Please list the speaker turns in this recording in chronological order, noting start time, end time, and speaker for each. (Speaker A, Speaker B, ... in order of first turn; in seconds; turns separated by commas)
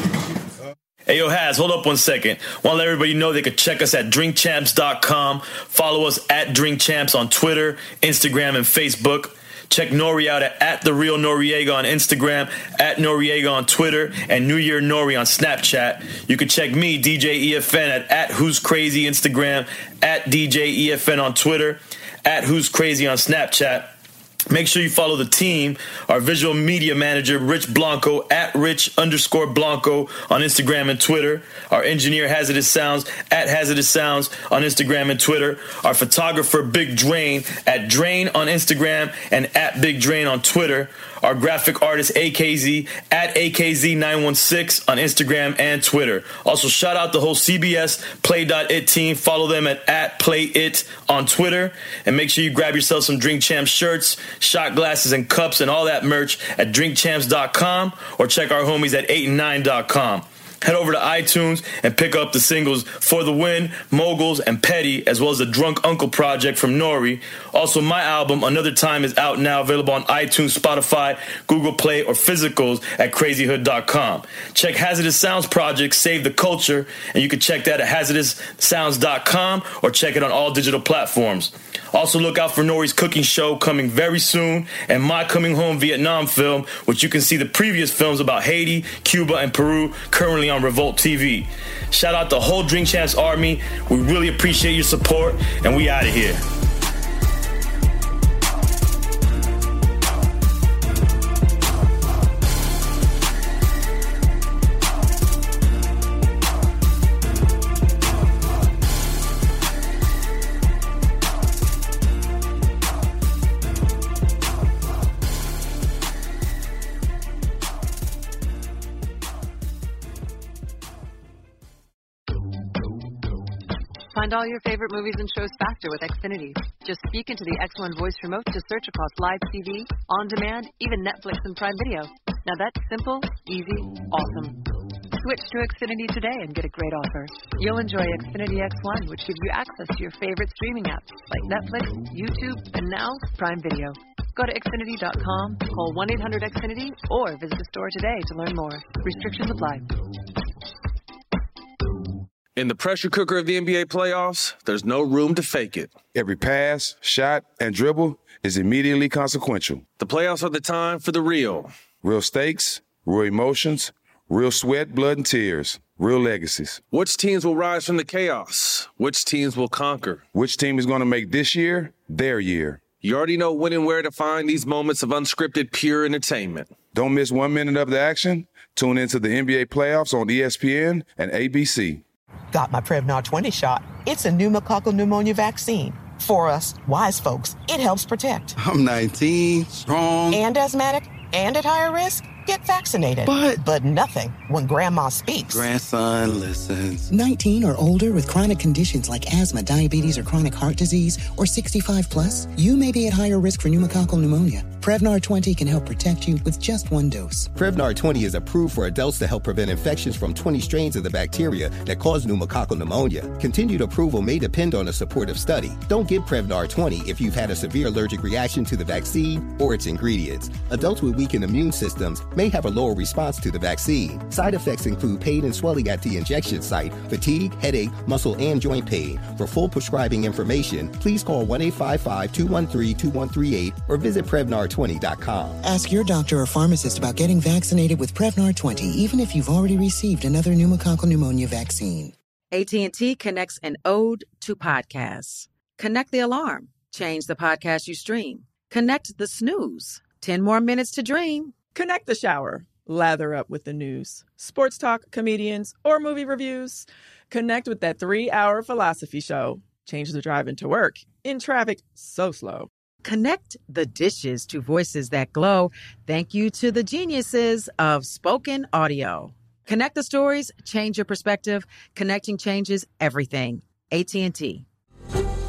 Speaker A: 1.1-23.9, Speaker A: 24.5-96.4, Speaker B: 124.1-134.6, Speaker B: 135.2-149.9, Speaker C: 152.6-155.9, Speaker D: 156.1-159.8, Speaker C: 160.0-161.7, Speaker D: 162.0-166.8, Speaker C: 166.9-170.2, Speaker D: 170.3-172.8, Speaker C: 173.0-176.7, Speaker D: 176.9-182.0, Speaker E: 182.5-188.6, Speaker F: 188.6-190.4, Speaker E: 190.3-195.7, Speaker F: 195.5-197.1, Speaker G: 197.1-207.5, Speaker H: 207.6-235.6, Speaker G: 235.6-242.1, Speaker I: 242.5-251.6, Speaker J: 251.7-262.7, Speaker I: 263.0-274.6